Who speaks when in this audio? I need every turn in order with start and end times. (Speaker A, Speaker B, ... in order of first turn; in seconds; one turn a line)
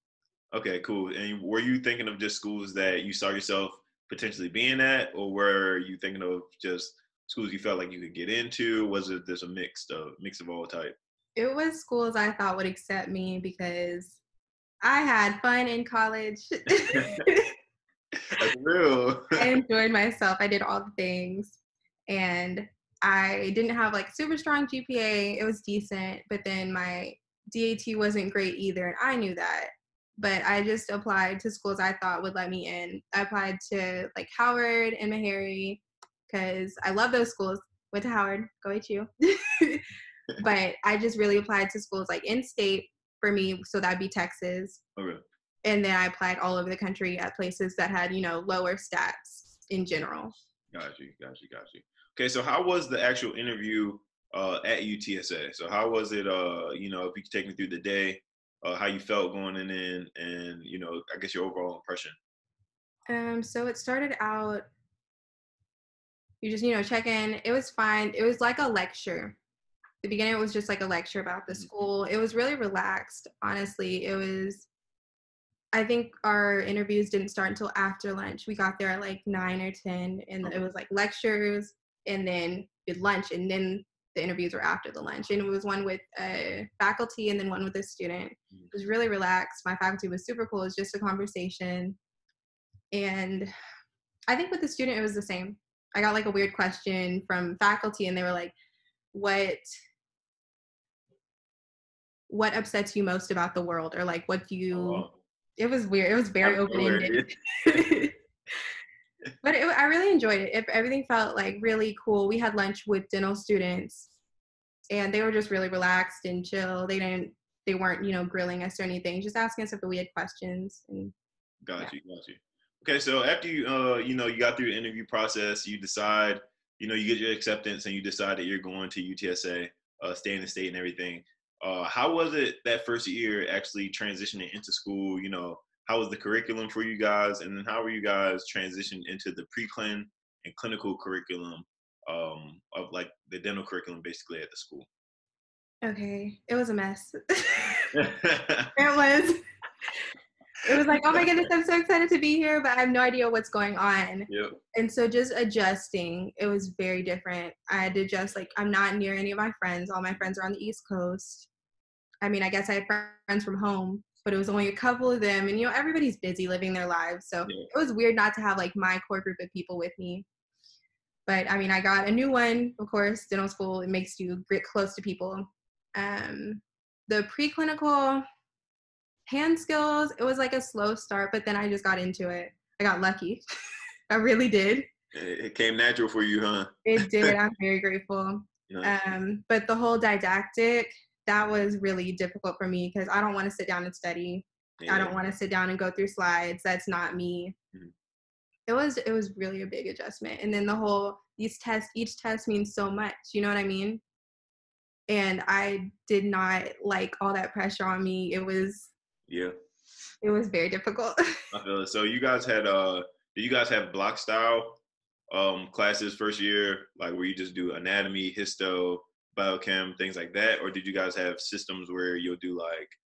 Speaker A: 0.5-10.9
Speaker B: 11.4-14.2
Speaker B: 14.8-17.5
Speaker A: 18.3-19.5
Speaker B: 19.4-39.9
Speaker B: 40.4-44.8
Speaker A: 45.0-45.2
Speaker B: 45.6-50.3
Speaker A: 50.7-62.1
Speaker B: 63.1-64.7
Speaker B: 66.4-69.4
Speaker B: 70.0-74.7
Speaker B: 75.7-92.0
Speaker B: 92.9-93.5
Speaker B: 94.3-98.5
Speaker B: 99.1-99.6
Speaker B: 102.3-105.1
Speaker A: 104.7-105.1
Speaker B: 105.6-108.1
Speaker A: 106.4-107.8
Speaker B: 109.4-114.1
Speaker B: 114.9-121.1
Speaker A: 121.6-144.9
Speaker B: 145.8-148.0
Speaker A: 147.9-148.7
Speaker B: 148.8-149.4
Speaker B: 150.7-161.5
Speaker A: 151.1-151.4
Speaker A: 154.3-154.6
Speaker B: 162.2-170.2
Speaker B: 171.2-178.2
Speaker B: 179.2-183.4
Speaker B: 184.1-184.9
Speaker A: 185.1-187.4
Speaker B: 186.8-197.6
Speaker A: 188.7-188.9
Speaker A: 194.8-195.2
Speaker B: 198.7-204.0
Speaker B: 205.1-208.9
Speaker A: 209.3-209.5
Speaker B: 210.2-211.2
Speaker A: 211.5-214.8
Speaker A: 215.3-223.0